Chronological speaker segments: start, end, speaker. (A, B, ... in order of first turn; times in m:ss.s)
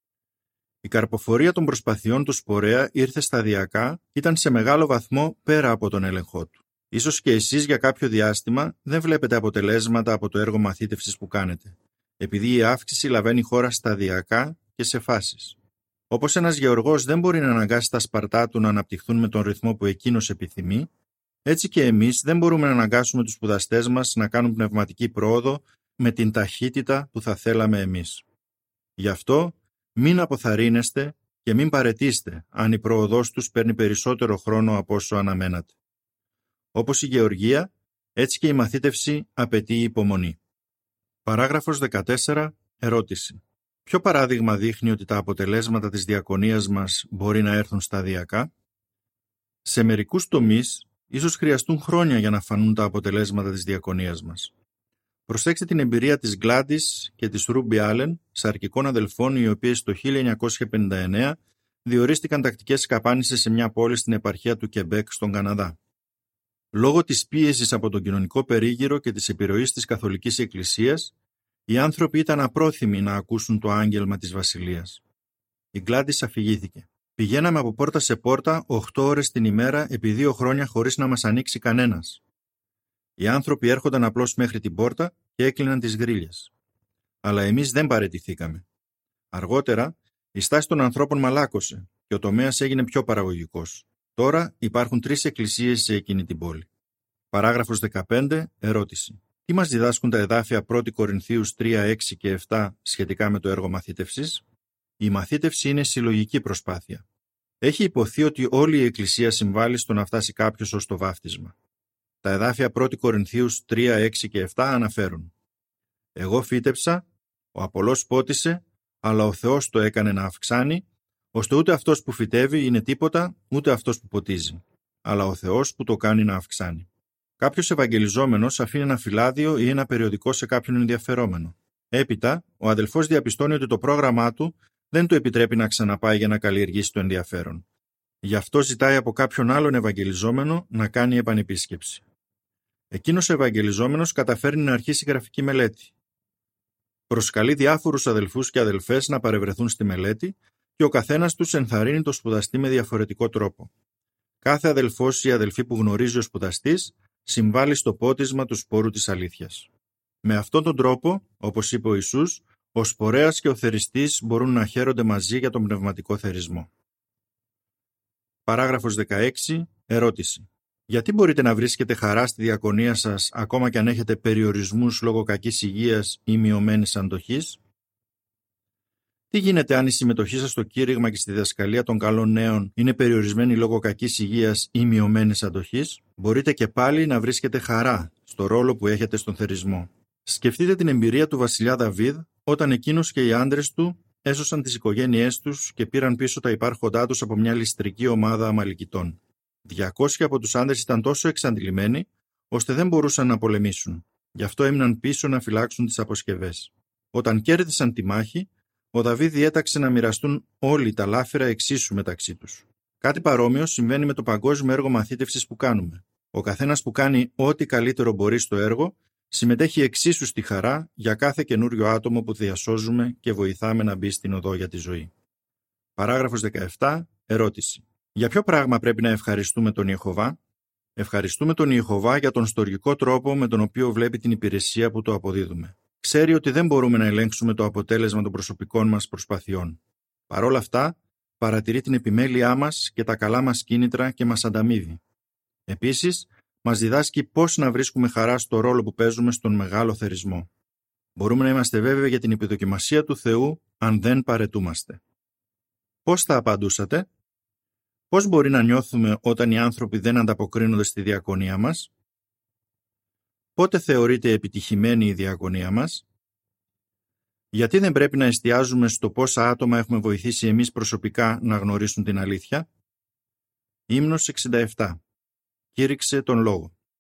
0:00.8-0:15.6 A
0:16.1-0:20.9 A
0:21.5-0:28.2 A
0:29.0-0:35.8 A
0:36.8-0:40.4 A
0:41.2-0:48.5 A
0:49.6-0:54.5 A
0:55.3-1:05.8 A
1:06.7-1:11.1 A
1:11.7-1:15.0 A
1:15.7-1:22.2 A
1:23.2-1:26.5 A
1:27.2-1:28.7 A
1:29.3-1:36.7 A
1:37.3-1:44.4 A
1:45.0-1:47.0 A
1:47.6-1:51.6 A
1:52.2-1:55.3 A
1:56.2-2:06.9 A
2:07.4-2:17.7 A
2:18.2-2:22.0 A
2:22.9-2:25.9 A
2:27.1-2:33.7 A
2:34.4-2:39.7 A
2:40.2-2:46.7 A
2:48.5-2:57.6 A
2:59.3-3:45.1 A
3:46.0-3:50.4 A
3:51.0-4:05.0 A
4:05.7-4:10.5 A
4:11.2-4:15.0 A
4:16.0-4:17.1 A
4:18.1-4:21.9 A
4:23.6-4:26.1 A
4:27.5-4:32.7 A
4:33.9-4:35.0 A
4:35.7-4:36.8 A